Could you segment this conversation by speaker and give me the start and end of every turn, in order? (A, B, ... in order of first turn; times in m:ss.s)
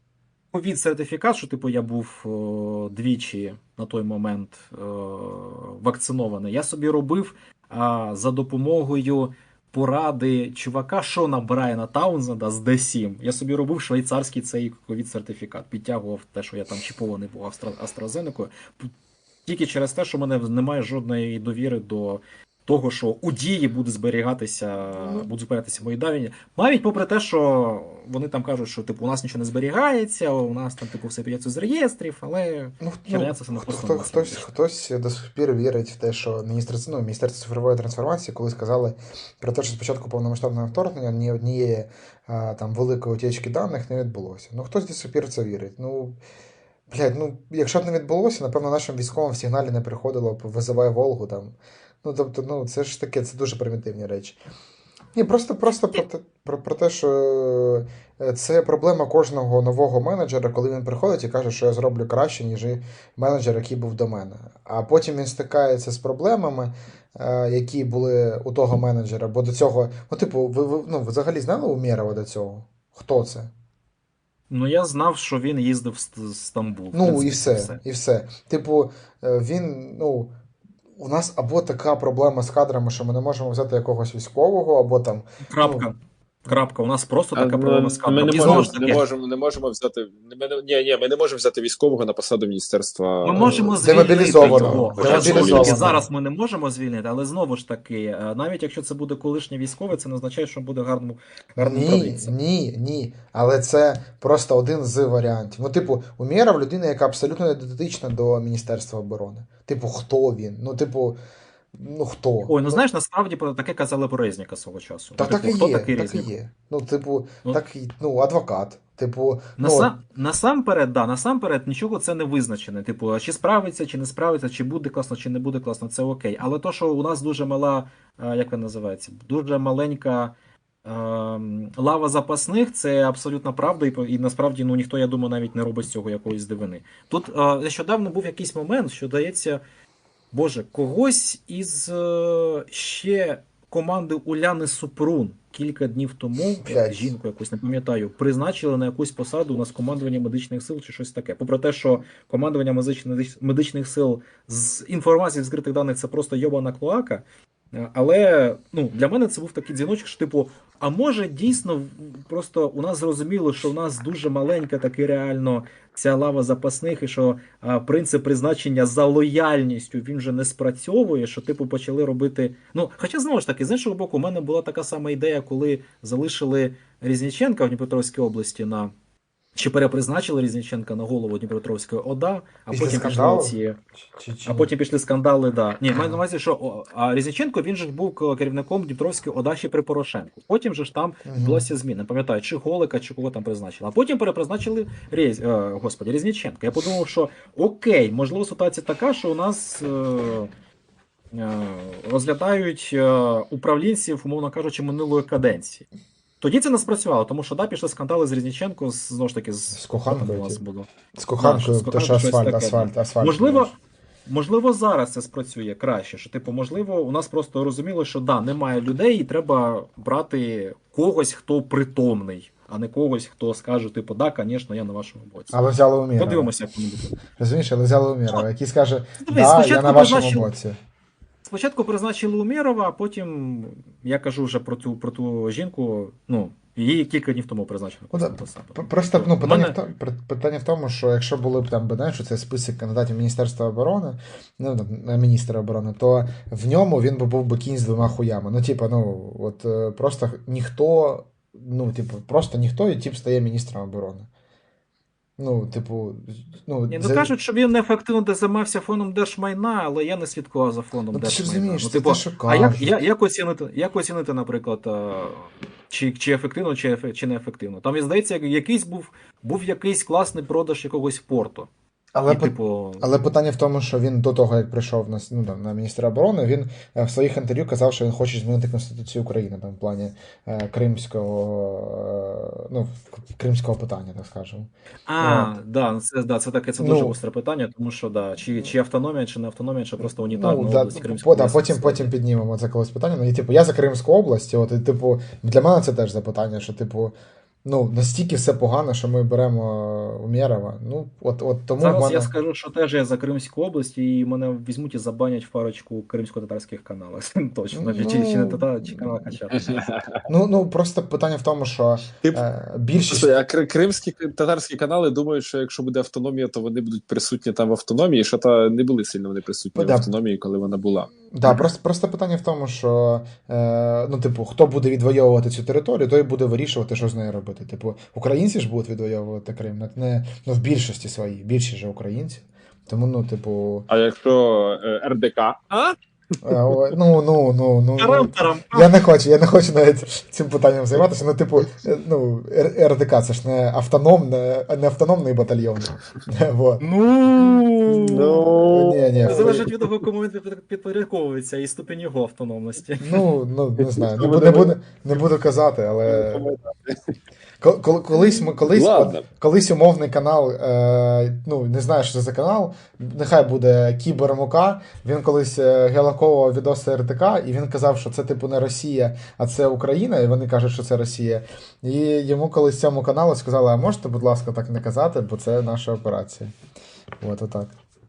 0:00.5-0:18.9 A
0:19.4-0:34.5 A
0:24.9-0:25.3 B
0:32.8-0:46.2 B
0:46.9-0:54.4 B
0:55.1-1:13.5 B
1:14.5-1:17.8 A
1:16.9-1:20.3 B
1:21.0-1:25.9 B
1:25.4-1:29.0 A
1:27.3-1:36.0 C
1:33.2-1:42.4 A
1:33.4-1:36.1 B
1:41.6-1:51.2 B
1:51.8-1:52.8 B
1:52.5-1:56.3 A
1:55.2-1:59.9 B
1:59.6-2:10.3 A
2:10.8-2:19.6 A
2:20.3-2:58.9 A
2:26.6-2:27.1 B
2:59.5-3:03.8 A
3:02.7-3:03.6 B
3:04.1-3:04.7 B
3:04.4-3:20.5 A
3:05.9-3:06.2 B
3:11.2-3:11.7 B
3:21.3-3:25.9 A
3:26.4-3:33.7 A
3:29.7-3:30.6 B
3:31.2-3:33.7 B
3:34.2-3:45.6 A
3:45.5-3:46.5 B
3:46.2-3:47.1 A
3:47.3-3:50.8 B
3:49.2-3:50.5 A
3:51.4-3:59.8 A
3:58.1-4:14.3 B
4:15.4-4:17.3 B
4:16.9-4:31.7 A
4:21.1-4:23.0 B
4:32.1-4:44.7 B
4:32.3-4:33.1 A
4:45.1-4:52.1 A
4:45.2-4:45.5 B
4:46.8-4:47.1 B
4:50.0-5:02.3 B
5:01.8-5:09.7 A
5:07.7-5:09.1 B
5:09.6-5:10.1 C
5:10.3-5:13.3 B
5:13.1-5:21.6 C
5:19.8-5:20.1 B
5:21.3-5:33.9 B
5:33.9-5:36.0 C
5:36.4-5:46.8 B
5:38.0-5:39.1 A
5:46.8-5:48.4 A
5:48.1-5:49.9 C
5:48.4-5:49.6 B
5:49.2-5:53.3 A
5:53.0-5:56.5 B
5:53.8-5:54.7 C
5:56.0-5:56.9 C
5:57.6-6:16.5 B
5:58.2-5:59.2 C
6:17.2-6:17.8 B